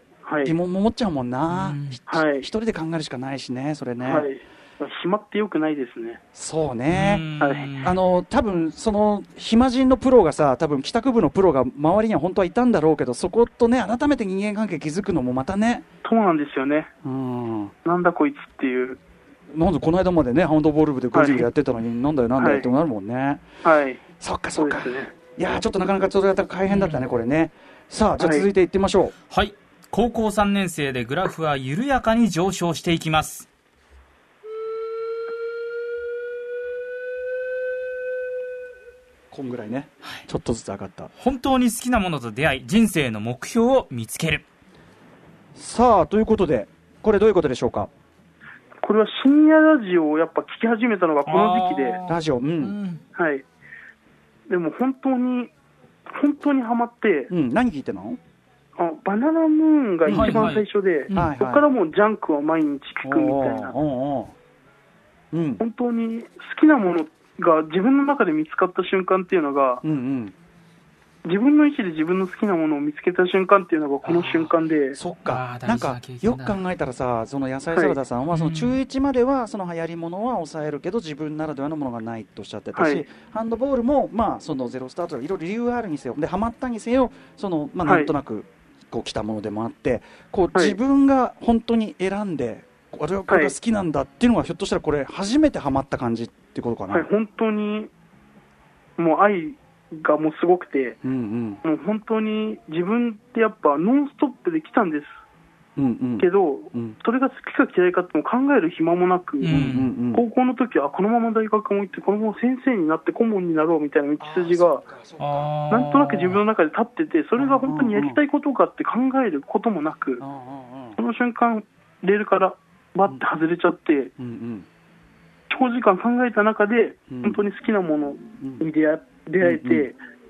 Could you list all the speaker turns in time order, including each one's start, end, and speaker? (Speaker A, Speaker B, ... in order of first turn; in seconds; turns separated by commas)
Speaker A: 0.2-0.6, Speaker B: 0.4-4.3, Speaker C: 1.5-2.0, Speaker A: 2.1-2.5, Speaker A: 4.0-6.2, Speaker B: 6.3-7.2, Speaker C: 6.9-8.0, Speaker A: 7.4-7.7, Speaker B: 7.8-15.8, Speaker A: 16.0-16.9, Speaker B: 17.0-17.7, Speaker A: 17.8-19.0, Speaker B: 19.5-23.4, Speaker A: 21.1-21.5, Speaker A: 22.4-22.7, Speaker A: 23.6-24.0, Speaker B: 24.2-29.1, Speaker A: 24.6-25.1, Speaker C: 26.7-27.0, Speaker A: 28.2-28.5, Speaker C: 29.3-33.5, Speaker B: 39.3-41.1, Speaker C: 41.2-44.4, Speaker B: 45.5-47.9, Speaker A: 48.8-52.0, Speaker C: 51.3-53.0, Speaker B: 52.1-52.8, Speaker A: 53.1-53.4, Speaker A: 54.5-55.5, Speaker A: 56.1-57.3, Speaker B: 57.3-58.2, Speaker A: 58.8-63.8, Speaker B: 60.1-60.5, Speaker C: 60.1-61.3, Speaker B: 61.1-61.6, Speaker B: 63.0-64.3, Speaker B: 65.3-65.6, Speaker A: 65.6-69.8, Speaker B: 69.8-70.3, Speaker A: 71.2-75.0, Speaker C: 74.0-74.5, Speaker B: 75.0-97.1, Speaker C: 75.2-76.6, Speaker C: 78.3-78.8, Speaker A: 82.7-83.0, Speaker A: 87.8-88.1, Speaker A: 93.3-93.5, Speaker A: 96.9-97.9, Speaker A: 99.0-101.0, Speaker B: 101.0-101.6, Speaker A: 101.6-105.2, Speaker B: 105.8-107.0, Speaker A: 106.2-114.8, Speaker C: 109.4-109.9, Speaker B: 109.5-110.2, Speaker B: 114.2-115.5, Speaker C: 115.2-116.4, Speaker A: 115.7-120.2, Speaker B: 117.4-118.2, Speaker B: 120.2-121.0, Speaker A: 121.0-124.1, Speaker B: 124.2-124.7, Speaker A: 125.5-130.0, Speaker B: 127.1-127.4, Speaker B: 129.4-129.9